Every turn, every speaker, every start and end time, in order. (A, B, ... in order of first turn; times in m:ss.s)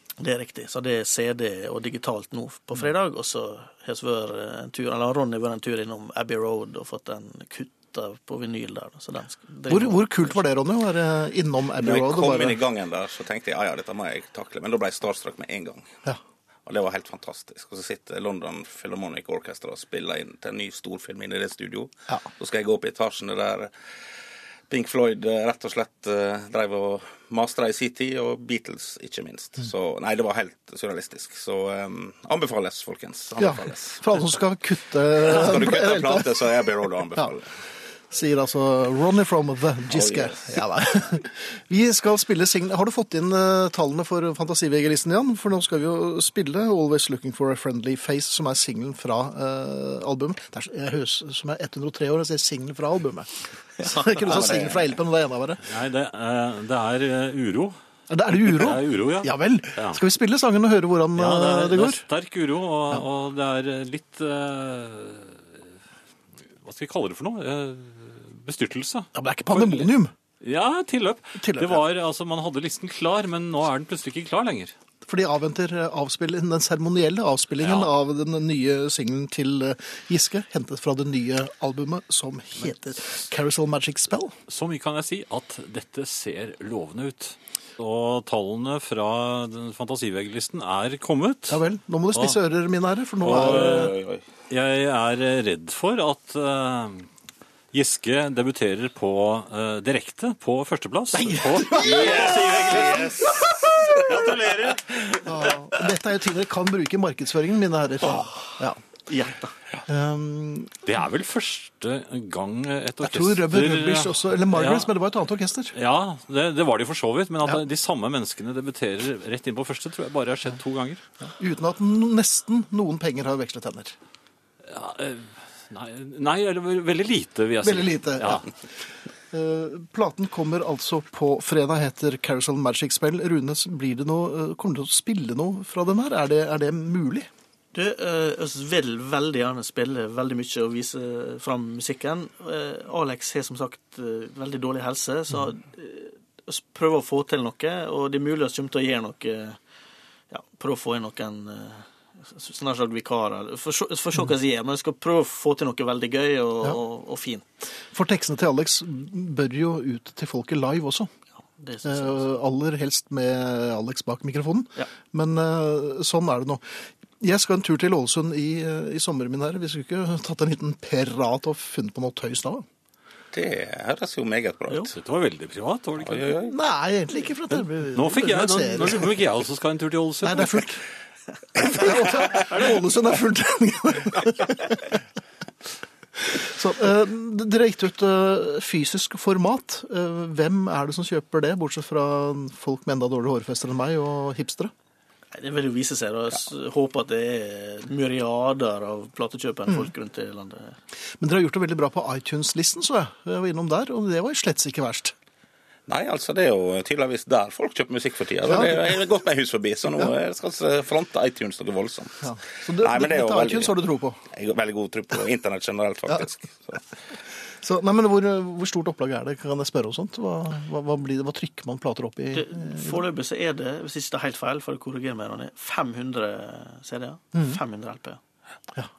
0:00.2-0:10.3 A
0:09.7-0:12.6 B
0:11.8-0:15.9 C
0:16.6-0:23.7 C
0:24.7-0:34.0 C
0:33.4-0:37.3 B
0:35.2-0:37.5 C
0:38.1-0:55.6 B
0:39.9-0:40.6 C
0:53.8-0:54.6 A
0:55.6-0:57.7 D
0:58.1-1:02.0 B
0:58.4-1:00.0 D
1:01.2-1:05.6 D
1:06.6-1:14.7 D
1:09.1-1:10.1 B
1:11.4-1:11.8 B
1:15.0-1:24.3 B
1:17.6-1:17.9 D
1:24.5-1:31.6 D
1:31.5-1:33.9 B
1:33.2-1:34.0 D
1:33.3-1:34.2 C
1:34.5-1:37.1 D
1:37.7-1:45.5 D
1:41.4-1:42.2 B
1:41.8-1:43.4 C
1:45.2-1:48.8 B
1:48.1-1:48.4 A
1:49.1-1:49.5 A
1:49.8-1:50.8 B
1:50.8-1:54.9 D
1:53.0-1:55.7 B
1:55.7-2:01.0 D
2:01.4-2:03.9 B
2:04.6-2:08.5 D
2:07.6-2:08.5 B
2:09.3-2:17.3 B
2:17.7-2:29.6 A
2:30.3-2:37.4 A
2:37.9-2:41.1 B
2:41.6-2:42.2 A
2:41.8-2:52.6 B
2:53.3-2:54.9 C
2:54.9-2:56.4 D
2:56.0-2:56.5 C
2:56.5-2:59.1 B
2:57.9-3:00.6 D
3:00.2-3:00.8 B
3:01.5-3:05.0 B
3:06.2-3:14.7 B
3:15.3-3:20.8 A
3:21.2-3:25.1 B
3:25.9-3:33.7 C
3:28.4-3:29.0 B
3:32.2-3:34.2 B
3:34.3-3:36.8 C
3:37.4-3:43.0 B
3:42.3-3:48.2 A